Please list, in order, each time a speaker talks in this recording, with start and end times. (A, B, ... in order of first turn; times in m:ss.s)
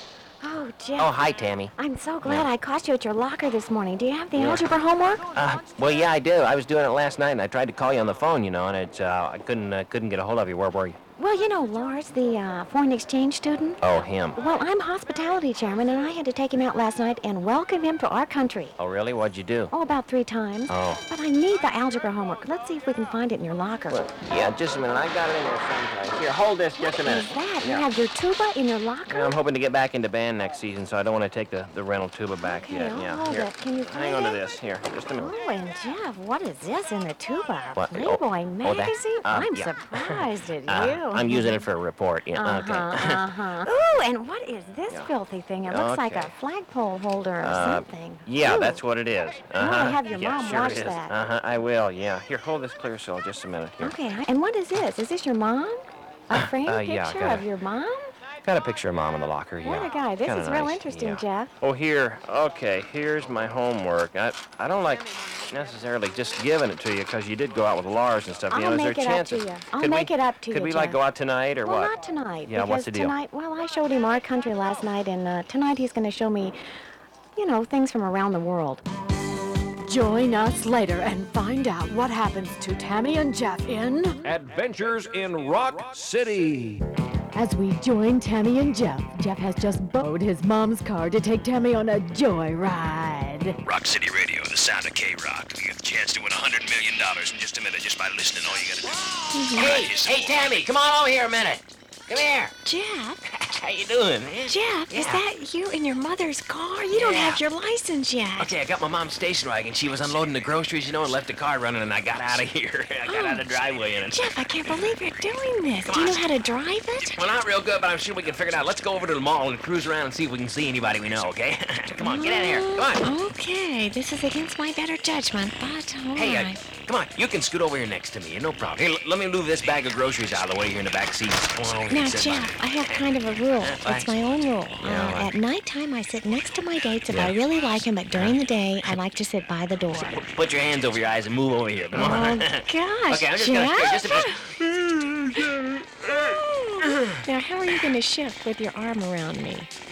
0:00.4-0:01.2 A
0:01.0-0:02.5 B
0:01.8-0:05.2 A
0:04.4-0:04.7 B
0:05.3-0:11.0 B
0:11.2-0:13.8 A
0:13.8-0:14.4 B
0:14.4-0:18.7 A
0:18.8-0:19.7 B
0:19.7-0:24.0 A
0:20.7-0:21.0 B
0:23.9-0:27.8 B
0:26.8-0:29.4 A
0:29.1-0:35.3 B
0:32.4-0:34.4 A
0:35.2-0:41.6 A
0:37.8-0:43.3 B
0:42.4-0:48.8 A
0:45.7-0:46.3 B
0:47.4-0:53.9 B
0:49.6-0:51.1 A
0:53.8-0:58.1 A
0:56.3-0:57.4 B
0:58.4-1:11.9 B
0:59.6-1:01.5 A
1:08.5-1:11.0 A
1:11.6-1:16.6 A
1:12.5-1:13.1 B
1:17.4-1:18.8 A
1:19.8-1:24.2 C
1:24.2-1:26.8 D
1:27.3-1:33.6 C
1:33.6-1:40.3 D
1:39.3-1:39.9 A
1:39.6-1:42.5 B
1:42.6-1:43.2 A
1:43.3-1:45.2 B
1:44.5-1:48.5 A
1:46.9-1:47.4 B
1:48.4-1:54.9 B
1:53.0-1:53.4 A
1:54.1-1:57.2 A
1:55.9-1:56.2 B
1:57.0-2:03.0 B
2:02.0-2:06.6 A
2:06.2-2:13.0 B
2:11.9-2:20.2 A
2:13.6-2:14.1 B
2:14.8-2:15.3 B
2:19.9-2:25.9 B
2:21.9-2:24.5 A
2:26.1-2:29.7 A
2:26.8-2:27.2 B